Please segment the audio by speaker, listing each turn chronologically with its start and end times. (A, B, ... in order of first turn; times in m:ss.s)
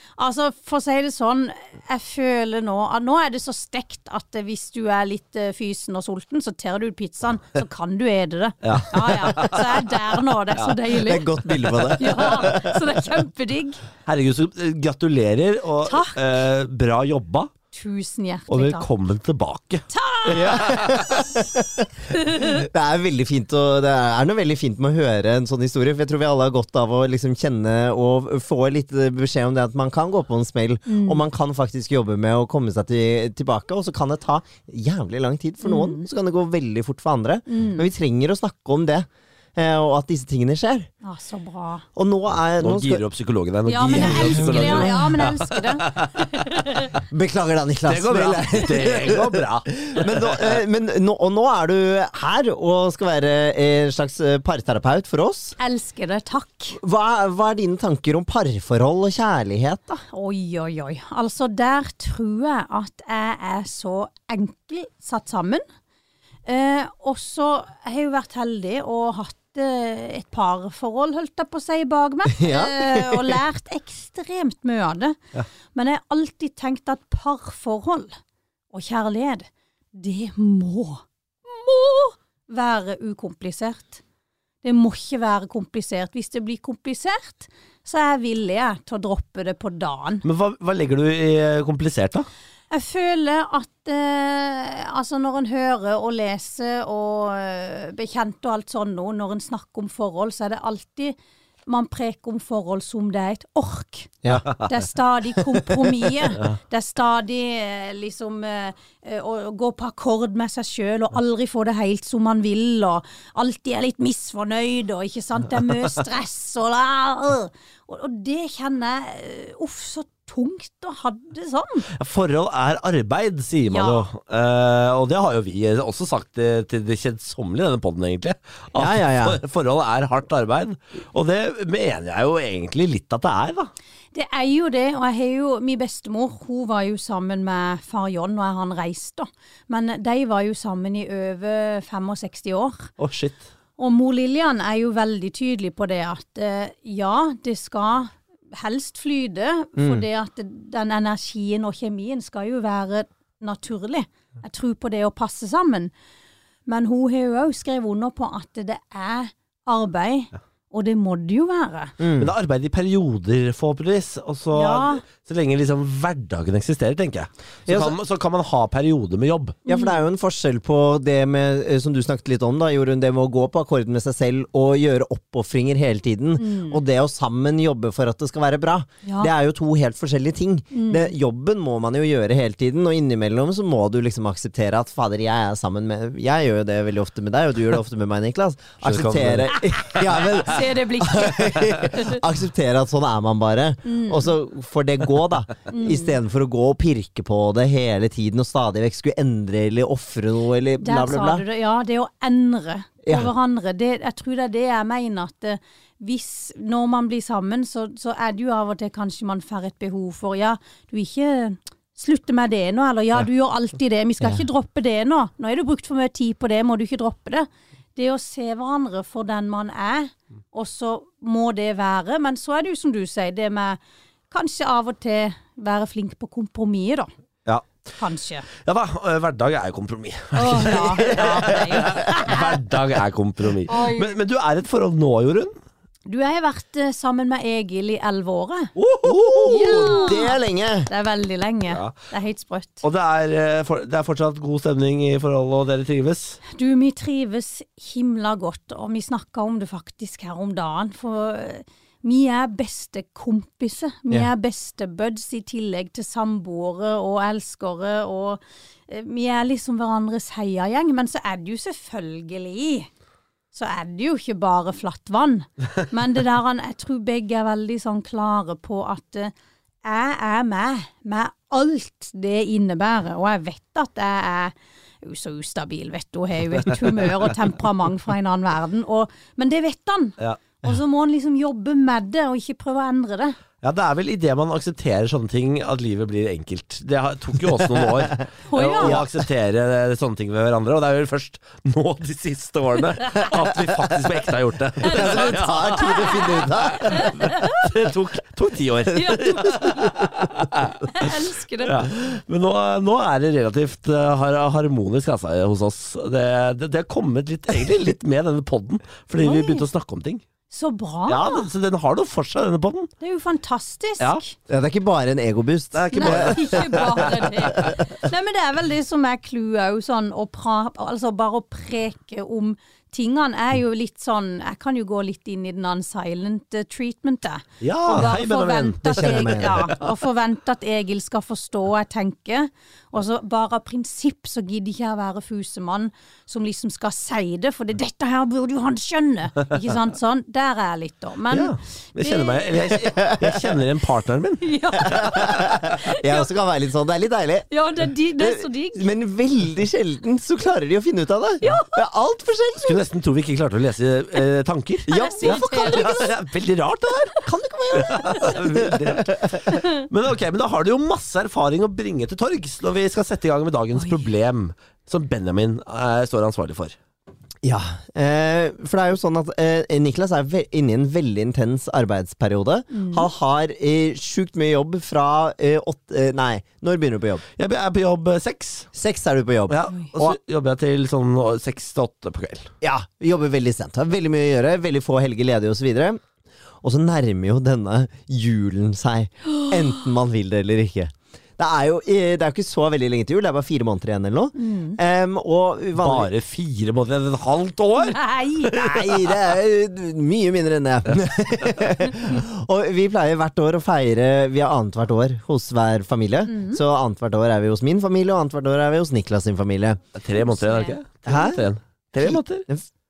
0:00.2-0:13.8 A
0:08.6-0:09.9 B
0:10.9-0:12.9 C
0:14.0-0:17.5 B
0:15.8-0:16.2 A
0:17.7-0:18.9 A
0:18.5-0:21.2 B
0:19.9-0:21.4 A
0:20.3-0:40.9 C
0:22.1-0:22.6 A
0:30.9-0:31.2 A
0:35.6-0:36.0 A
0:37.5-0:37.9 A
0:41.0-0:41.8 A
0:42.0-0:43.0 C
0:42.6-0:46.4 B
0:43.6-0:46.9 A
0:43.9-0:44.9 C
0:47.0-0:55.6 C
0:47.9-0:50.6 B
0:55.6-0:56.8 A
0:56.8-1:00.0 C
1:00.0-1:05.6 A
1:06.4-1:15.2 A
1:12.3-1:13.4 C
1:15.7-1:18.2 A
1:18.7-1:24.0 A
1:24.6-1:30.2 A
1:30.2-1:32.3 B
1:32.7-1:41.1 A
1:41.7-2:01.9 A
1:44.3-1:44.7 B
2:01.9-2:13.7 B
2:03.7-2:04.1 A
2:08.8-2:09.4 C
2:14.1-2:22.9 A
2:23.0-2:23.4 B
2:23.8-2:35.9 A
2:29.8-2:30.0 C
2:36.7-2:41.9 A
2:42.0-2:42.3 C
2:42.2-2:49.6 B
2:44.5-2:45.0 A
2:47.7-2:48.0 C
2:49.6-2:50.0 A
2:49.7-3:21.4 C
2:56.4-2:56.8 A
2:59.0-2:59.3 A
3:00.7-3:01.1 A
3:08.8-3:09.8 B
3:10.3-3:12.2 A
3:13.8-3:14.3 A
3:15.7-3:16.2 A
3:20.8-3:43.8 A
3:23.0-3:23.3 C
3:44.3-3:47.1 A
3:47.4-3:47.9 B
3:48.0-3:48.5 A
3:48.5-3:55.5 B
3:50.3-3:52.6 A
3:53.7-3:54.2 A
3:56.1-3:58.7 A
3:58.8-4:00.2 B
3:59.0-4:00.9 C
3:59.4-4:02.8 A
4:02.8-4:06.4 B
4:06.4-4:22.9 A
4:23.5-4:29.3 A
4:29.8-4:43.4 A
4:43.6-5:10.2 B
4:47.8-4:48.1 C
4:48.5-4:49.0 A
4:48.8-4:49.1 C
4:53.0-4:53.4 A
4:54.8-4:57.3 C
4:54.8-4:57.6 A
4:58.9-5:00.1 A
5:00.8-5:01.9 A
5:09.2-5:09.6 A
5:10.5-5:11.5 A
5:11.1-5:12.9 B
5:13.0-5:14.4 A
5:14.5-5:17.8 C
5:15.7-5:17.7 B
5:15.9-5:42.8 A
5:27.6-5:29.8 B
5:28.9-5:29.7 C
5:41.3-5:45.7 B
5:42.7-5:43.4 C
5:44.4-5:46.3 A
5:44.9-5:47.5 C
5:47.5-5:48.9 A
5:48.2-5:52.8 C
5:51.4-5:51.8 A
5:52.6-5:57.2 B
5:54.9-5:56.1 C
5:54.9-5:56.1 A
5:57.2-5:59.4 C
5:57.7-6:06.8 B
5:57.8-5:58.4 A
5:59.5-5:59.8 A
6:03.8-6:04.0 A
6:07.4-6:17.2 C
6:12.7-6:13.1 A
6:17.4-6:18.7 B
6:18.7-6:20.2 C
6:19.5-6:22.5 B
6:19.7-6:19.9 A
6:22.6-6:26.0 C
6:26.6-6:36.1 C
6:34.4-6:34.8 A
6:35.8-6:39.2 B
6:37.8-6:38.8 A
6:38.6-6:49.8 C
6:46.3-6:46.6 A
6:50.0-6:52.4 B
6:50.2-6:50.8 A
6:51.0-6:51.4 C
6:52.0-6:52.7 C